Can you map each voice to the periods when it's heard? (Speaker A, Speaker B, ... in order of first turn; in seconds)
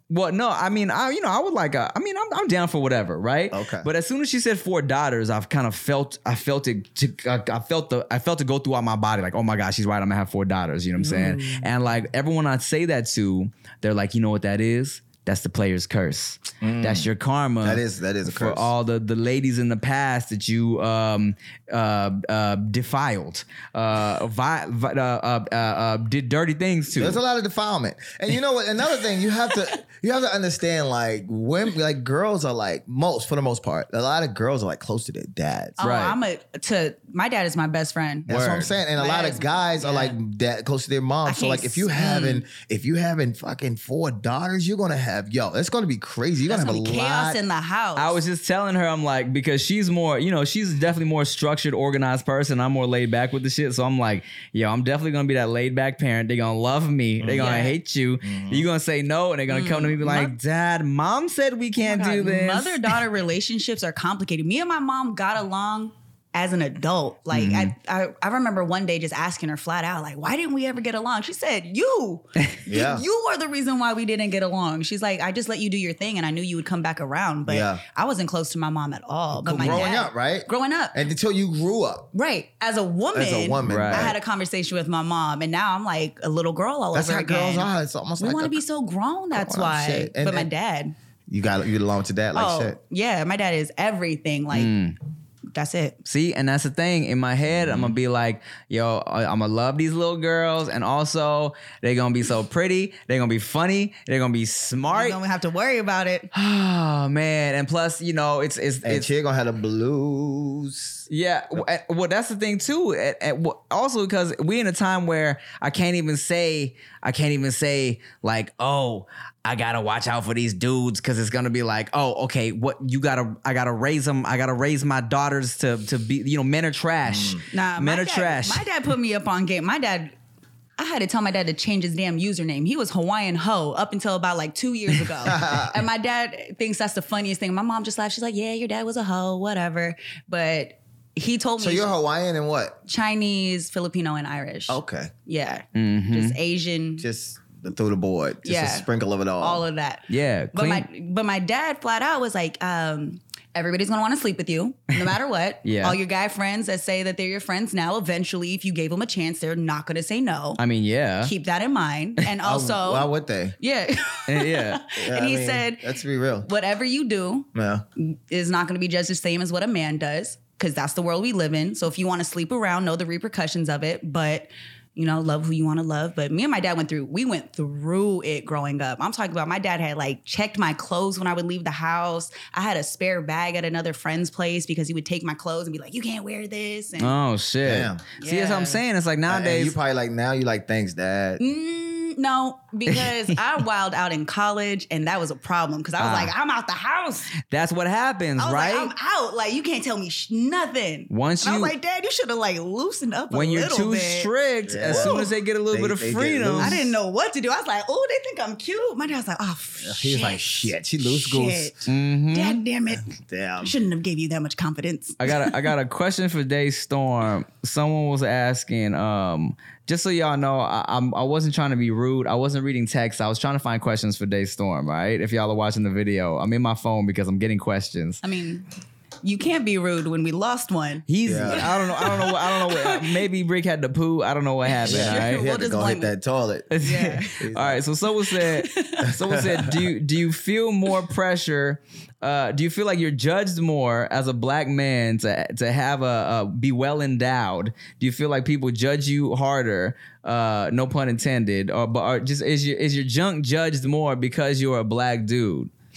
Speaker A: 0.1-27.2, 35.8-36.2, 38.3-38.7, 48.0-63.0, 67.3-67.7, 83.6-84.1, 94.5-94.9, 96.0-105.2, 106.3-109.1, 111.1-128.6, 145.7-146.3, 150.1-150.9, 155.6-156.0, 160.6-161.3, 164.3-164.8, 187.0-189.7, 196.0-196.3, 197.5-198.9, 201.1-201.7, 203.3-206.8, 211.8-212.6, 215.2-228.2, 231.1-235.4, 236.7-255.7
Speaker B: 3.5-3.9, 11.1-11.3, 16.6-17.1, 17.6-18.7, 26.9-35.8, 38.3-47.4, 57.2-57.5, 58.2-58.6, 72.7-73.0, 77.5-77.8, 79.3-82.1, 83.1-84.2, 86.9-88.6, 89.3-90.5, 91.3-92.8, 97.5-98.0, 108.8-111.0, 127.0-127.4, 135.2-135.8, 141.6-142.8, 144.7-145.1, 147.0-149.6, 162.4-163.6, 164.9-166.5, 167.5-167.8, 187.6-188.0, 189.3-191.4, 204.7-206.9, 209.8-211.8, 213.0-213.7, 231.2-231.7, 234.8-236.8, 237.4-237.8, 239.0-239.8
Speaker C: 35.8-38.3, 39.0-40.1, 41.2-42.4, 46.5-48.2, 57.3-57.8, 59.5-60.3, 61.8-81.0, 82.1-90.9, 92.3-94.7, 95.5-96.0, 104.9-106.3, 127.5-130.1, 130.8-141.9, 142.9-147.0, 148.4-148.8, 149.4-160.6, 161.2-165.9, 166.4-187.1, 188.2-188.8, 191.4-197.3, 198.4-204.3, 204.9-205.3, 206.6-213.1, 213.6-215.6, 228.2-228.7, 229.2-233.2, 234.7-236.1, 236.8-237.4, 238.2-239.1